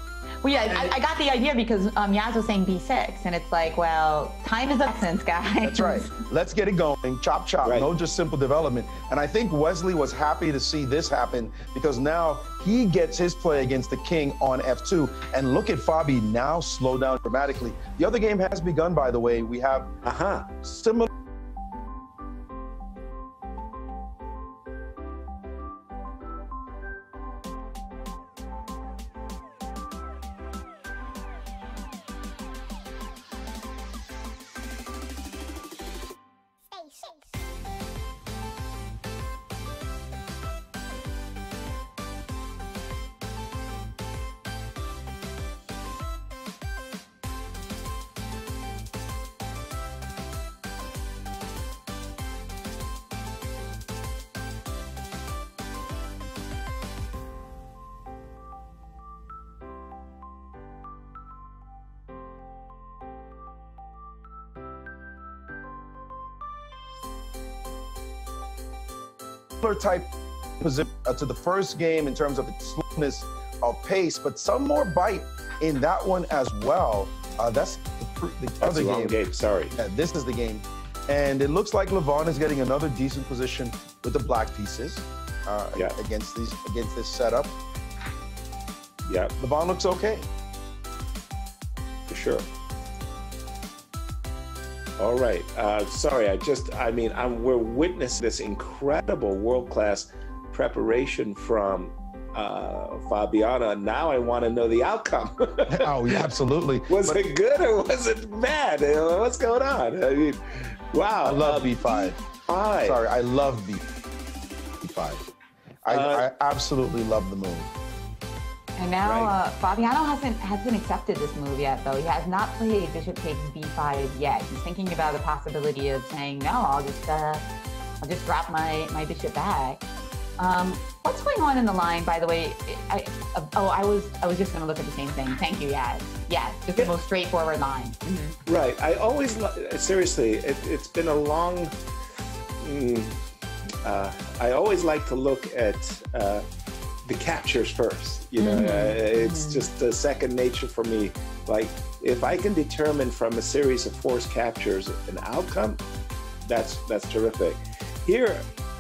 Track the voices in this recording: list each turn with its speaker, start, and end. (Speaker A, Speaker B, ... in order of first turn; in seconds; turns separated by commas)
Speaker A: 0.4-6.1, Speaker B: 5.6-19.9, Speaker C: 20.0-20.5, Speaker B: 20.6-21.1, Speaker B: 69.6-79.2, Speaker C: 78.6-79.7, Speaker B: 79.7-87.6, Speaker C: 89.0-89.3, Speaker B: 89.4-90.3, Speaker C: 92.1-92.4, Speaker C: 95.0-106.3, Speaker B: 105.7-107.2, Speaker C: 106.9-113.0, Speaker B: 111.2-112.2, Speaker B: 112.8-113.8, Speaker B: 114.8-115.2, Speaker B: 115.8-117.7, Speaker C: 115.9-116.2, Speaker A: 118.8-127.4, Speaker C: 119.0-119.3, Speaker A: 128.0-129.8, Speaker A: 130.4-138.3, Speaker C: 138.4-141.7, Speaker C: 142.6-143.2, Speaker C: 143.8-146.4, Speaker C: 147.1-155.8, Speaker A: 148.4-149.7, Speaker C: 156.4-158.4